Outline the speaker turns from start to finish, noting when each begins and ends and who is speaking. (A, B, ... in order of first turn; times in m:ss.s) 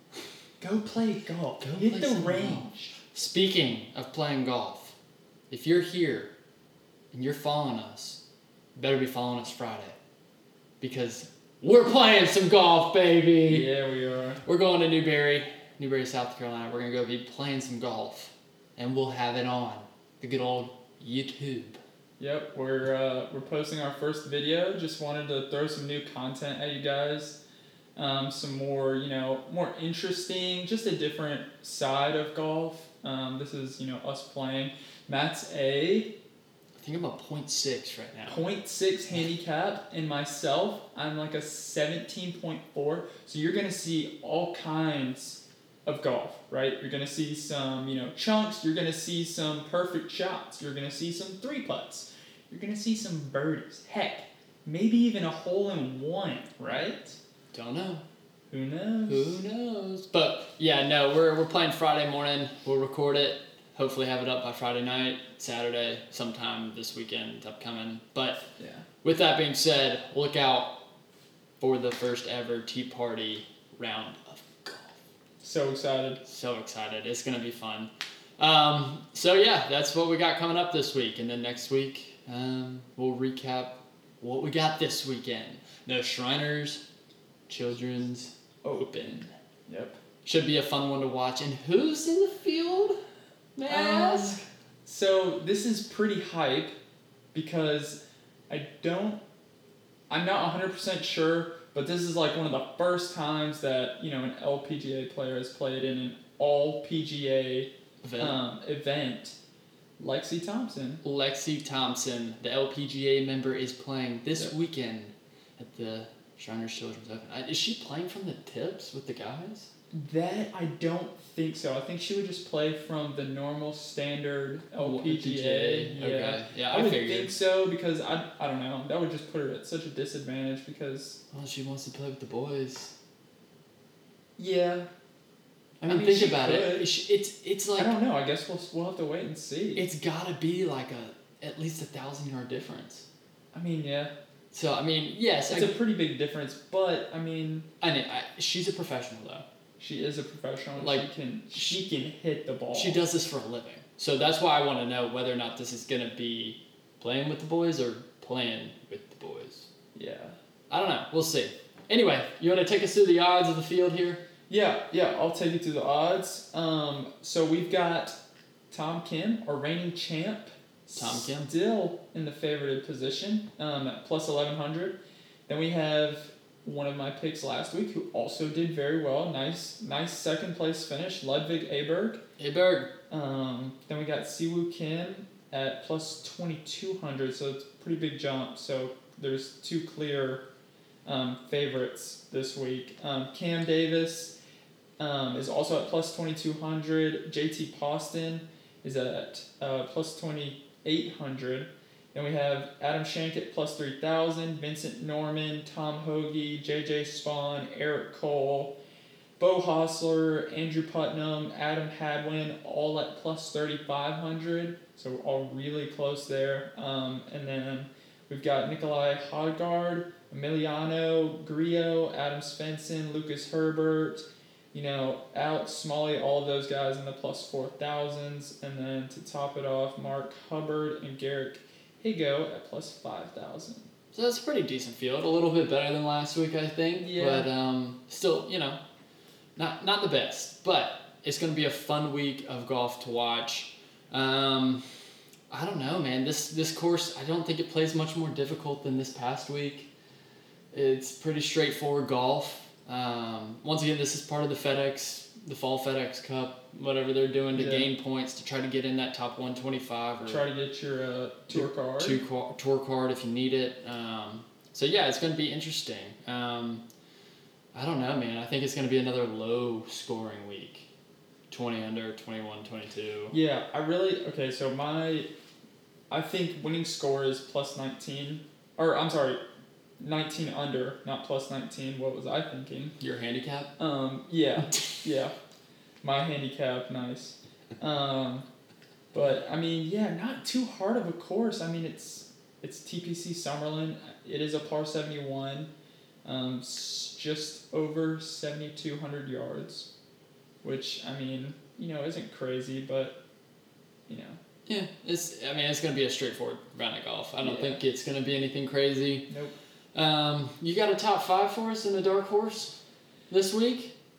0:00.6-0:03.0 A
0:01.6-0:04.9 B
0:05.5-0:06.3 B
0:07.1-0:08.2 B
0:08.8-0:10.0 B
0:10.8-0:13.7 B
0:13.4-0:14.4 A
0:14.4-0:21.8 B
0:22.2-0:27.4 A
0:28.0-0:36.1 A
0:36.8-0:38.4 B
0:38.3-0:57.2 A
0:57.5-0:58.0 B
0:58.5-0:59.4 A
0:59.1-1:08.4 B
1:08.6-1:08.8 A
1:09.0-1:10.8 B
1:11.6-1:15.0 B
1:15.4-1:16.2 A
1:16.2-1:26.8 B
1:27.5-1:29.1 B
1:28.6-1:30.0 A
1:30.2-1:33.0 B
1:33.6-1:34.4 B
1:33.6-1:36.7 A
1:37.3-1:39.2 A
1:40.1-1:49.4 A
1:48.0-1:48.4 B
1:50.0-1:51.0 A
1:51.0-1:59.7 B
1:59.9-2:11.2 A
2:04.8-2:07.3 B
2:11.3-2:12.9 B
2:14.4-2:14.9 A
2:15.8-2:18.0 B
2:15.9-2:16.9 A
2:17.8-2:19.8 A
2:19.7-2:23.0 B
2:23.5-2:24.1 A
2:24.5-2:25.8 B
2:25.5-2:27.7 A
2:27.8-2:29.4 B
2:29.8-2:33.0 A
2:30.8-2:31.8 B
2:32.7-2:39.7 B
2:39.9-2:40.4 A
2:40.7-2:44.2 B
2:44.5-2:48.2 A
2:48.7-3:02.2 A
2:50.9-2:51.5 B
3:02.4-3:02.9 B
3:03.1-3:10.4 A
3:11.0-3:14.4 A
3:15.0-3:28.7 A
3:29.4-3:53.9 A
3:54.1-3:58.8 B
3:56.9-3:57.5 A
3:59.6-4:04.8 B
4:05.5-4:09.9 B
4:10.7-4:20.5 B
4:17.5-4:17.9 A
4:20.2-4:22.2 A
4:21.5-4:26.8 B
4:27.7-4:30.9 B
4:31.5-4:33.4 B
4:33.3-4:35.3 A
4:36.1-4:39.4 A
4:40.0-4:42.9 A
4:43.0-4:43.7 B
4:43.8-4:45.4 A
4:46.0-4:48.4 A
4:49.1-4:55.7 A
4:56.2-4:59.9 A
5:00.6-5:03.2 A
5:04.1-5:04.4 A
5:04.7-5:09.3 B
5:07.4-5:07.8 A
5:09.3-5:09.5 A
5:09.9-5:12.8 B
5:13.3-5:13.9 B